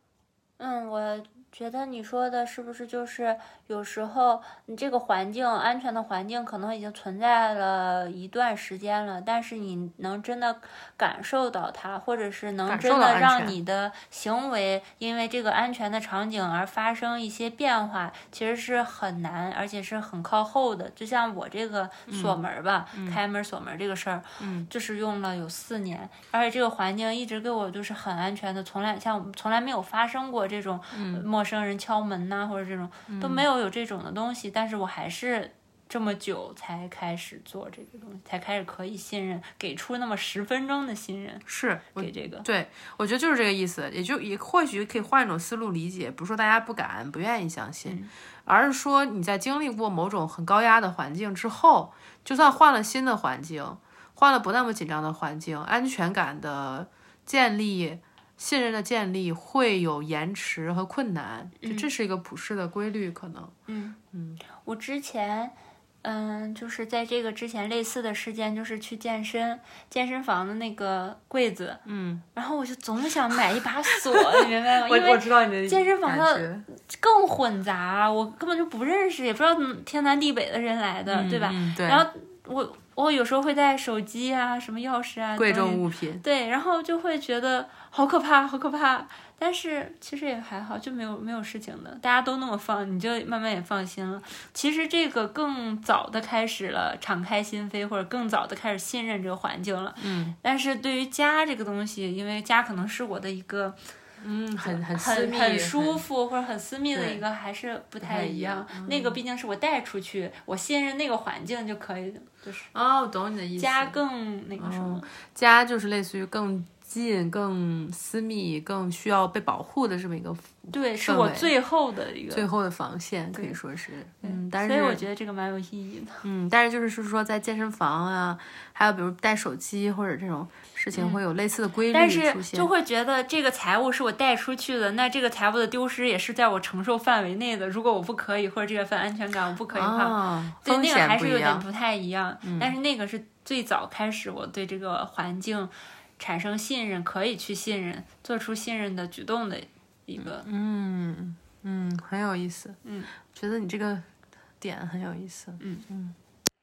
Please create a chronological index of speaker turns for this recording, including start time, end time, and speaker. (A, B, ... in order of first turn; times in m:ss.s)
0:00.6-0:42.5 A
0:12.7-0:13.6 B
0:22.1-0:22.4 B
0:22.9-0:23.2 B
0:24.4-0:24.7 B
0:30.9-0:31.3 B
0:33.1-0:33.5 B
0:41.5-1:03.5 B
0:47.8-0:48.1 A
1:01.6-1:01.9 A
1:03.7-1:04.0 A
1:04.1-1:04.4 B
1:04.6-1:11.8 A
1:11.8-1:12.2 B
1:12.3-1:43.8 A
1:14.8-1:16.6 B
1:21.1-1:22.0 B
1:25.4-1:26.2 B
1:40.0-1:40.4 B
1:44.2-1:46.0 B
1:44.6-1:52.7 A
1:46.9-1:47.2 B
1:48.0-1:49.2 B
1:52.7-1:54.0 B
1:53.6-1:55.1 A
1:54.6-2:00.5 B
2:00.7-2:02.5 A
2:01.0-2:01.5 B
2:02.3-2:05.0 B
2:04.2-2:06.2 A
2:06.2-2:12.7 B
2:10.9-2:11.2 A
2:11.9-2:30.5 A
2:19.7-2:21.6 B
2:22.4-2:22.7 B
2:30.2-2:32.8 B
2:32.8-2:33.1 A
2:33.3-2:34.1 B
2:34.6-2:36.1 B
2:35.6-2:35.8 A